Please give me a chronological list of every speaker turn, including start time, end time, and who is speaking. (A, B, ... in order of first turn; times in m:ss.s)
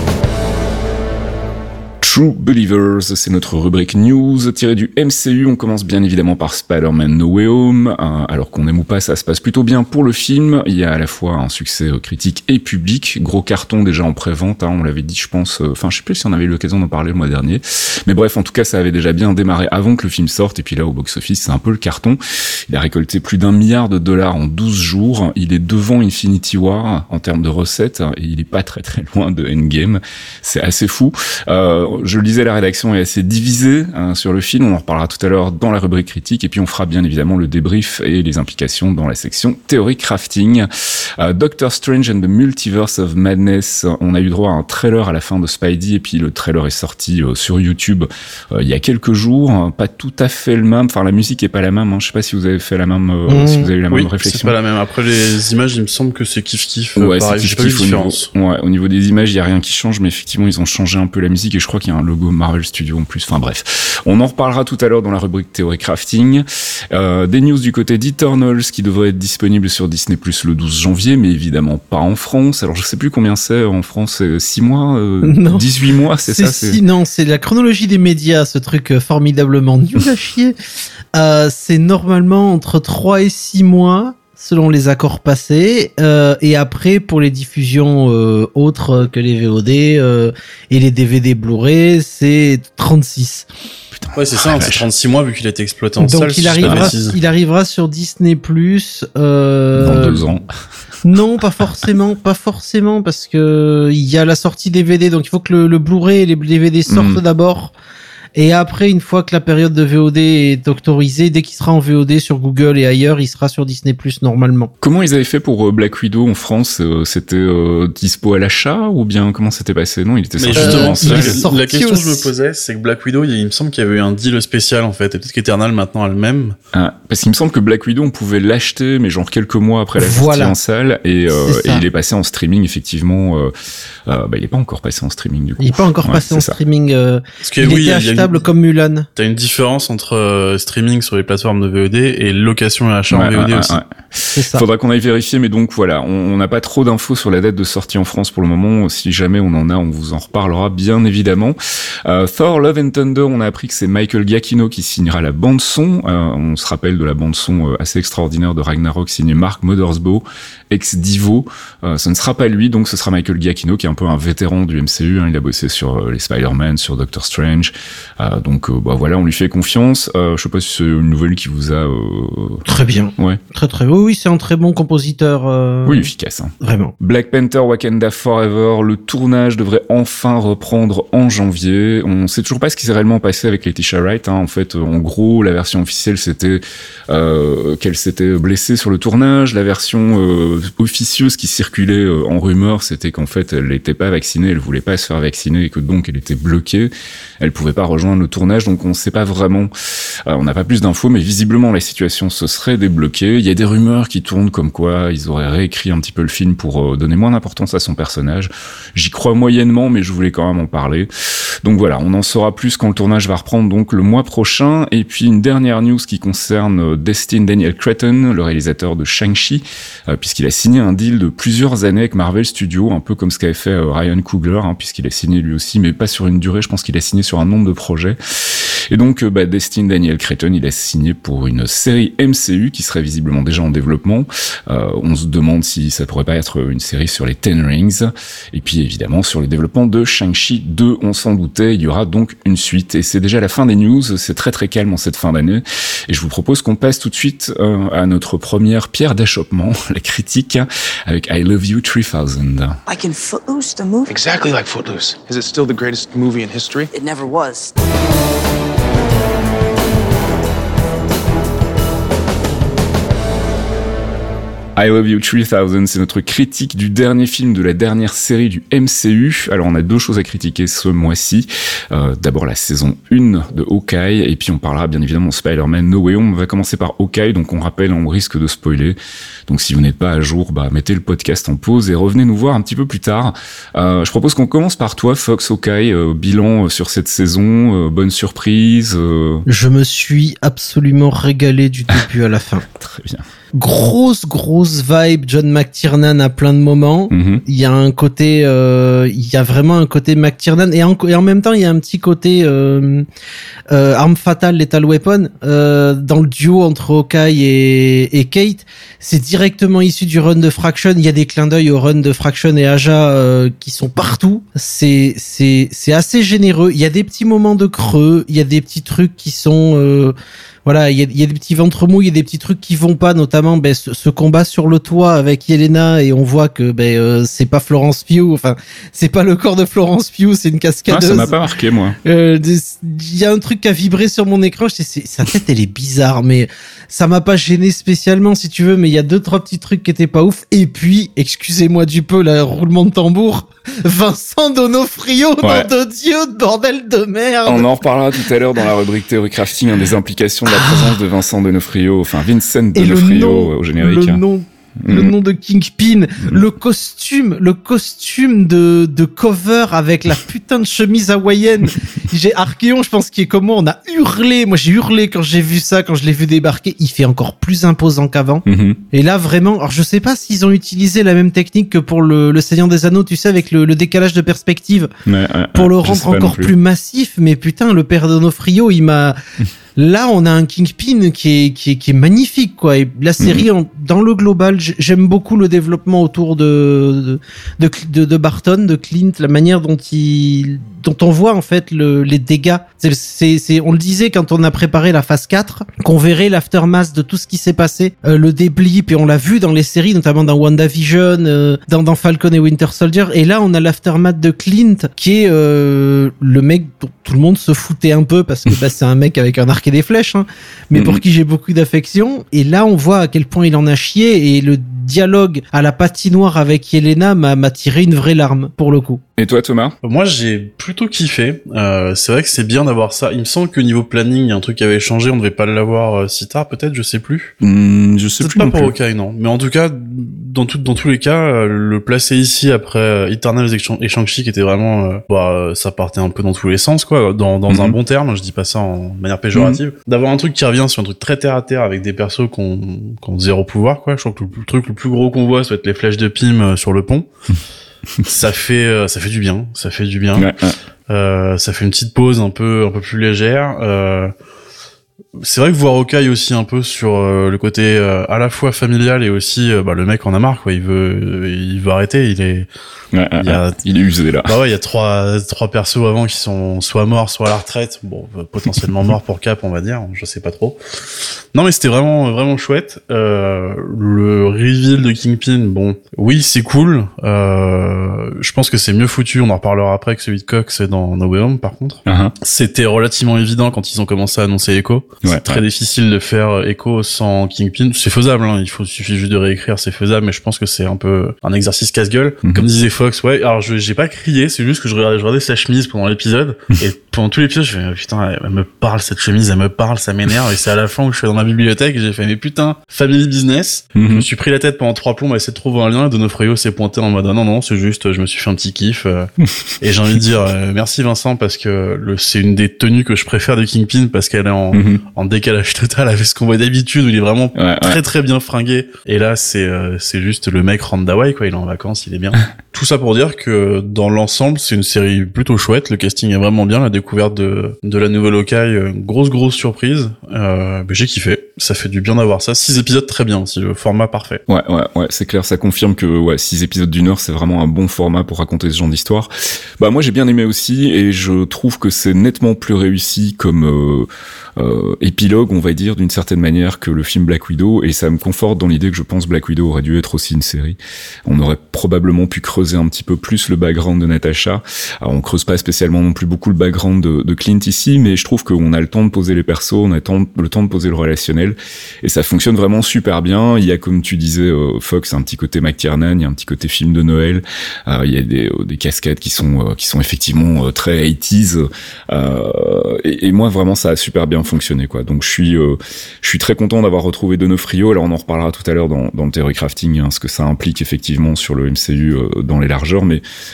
0:02.0-0:40.7 A
0:41.2-0:54.6 A
0:53.3-0:53.7 B
0:53.9-0:58.3 C
0:57.0-1:16.8 A
1:15.2-1:15.7 B
1:16.2-1:20.6 B
1:21.1-1:33.5 B
1:34.0-1:34.9 A
1:34.2-1:37.2 C
1:36.0-1:40.2 B
1:36.6-1:36.9 A
1:39.8-1:40.4 A
1:41.0-1:47.7 B
1:46.9-1:47.2 A
1:48.4-1:54.7 B
1:54.8-2:01.4 A
2:00.4-2:06.6 C
2:00.5-2:02.3 B
2:06.7-2:13.5 A
2:10.0-2:10.6 B
2:11.3-2:11.8 B
2:14.1-2:16.6 A
2:15.6-2:19.1 B
2:17.4-2:18.4 C
2:19.2-2:23.8 C
2:23.1-2:52.6 A
2:24.3-2:24.6 B
2:52.6-2:56.1 B
2:55.9-3:19.7 A
2:56.6-2:56.9 B
3:20.3-3:31.1 A
3:31.6-4:12.8 A
4:12.9-4:14.2 D
4:14.1-4:16.9 E
4:16.9-4:17.7 D
4:24.8-4:39.0 A
4:39.5-4:49.4 A
4:49.5-4:52.7 B
4:52.7-4:53.2 A
4:53.5-5:03.1 B
4:57.1-4:57.4 A
5:03.7-5:31.4 B
5:30.9-5:32.0 A
5:32.0-5:47.7 B
5:45.4-5:45.7 A
5:47.5-5:54.2 A
5:50.5-5:51.0 B
5:52.8-6:14.9 B
5:54.8-5:55.1 A
6:08.5-6:08.8 A
6:15.1-6:16.5 A
6:15.5-6:19.2 B
6:19.8-6:59.0 B
6:23.2-6:23.5 A
6:50.7-6:51.0 A
6:59.2-6:59.8 A
6:59.8-7:07.4 C
7:07.4-7:08.7 A
7:08.2-7:27.1 C
7:17.5-7:17.8 A
7:19.4-7:19.6 A
7:28.0-7:30.4 C
7:30.2-7:30.6 A
7:30.9-7:34.1 C
7:35.2-7:42.5 C
7:42.9-7:44.3 A
7:43.2-7:43.6 C
7:44.2-7:50.6 C
7:51.3-8:54.2 C
8:01.9-8:02.1 A
8:05.0-8:05.4 A
8:23.8-8:24.0 A
8:34.5-8:34.8 A
8:37.4-8:37.8 A
8:54.3-9:43.0 A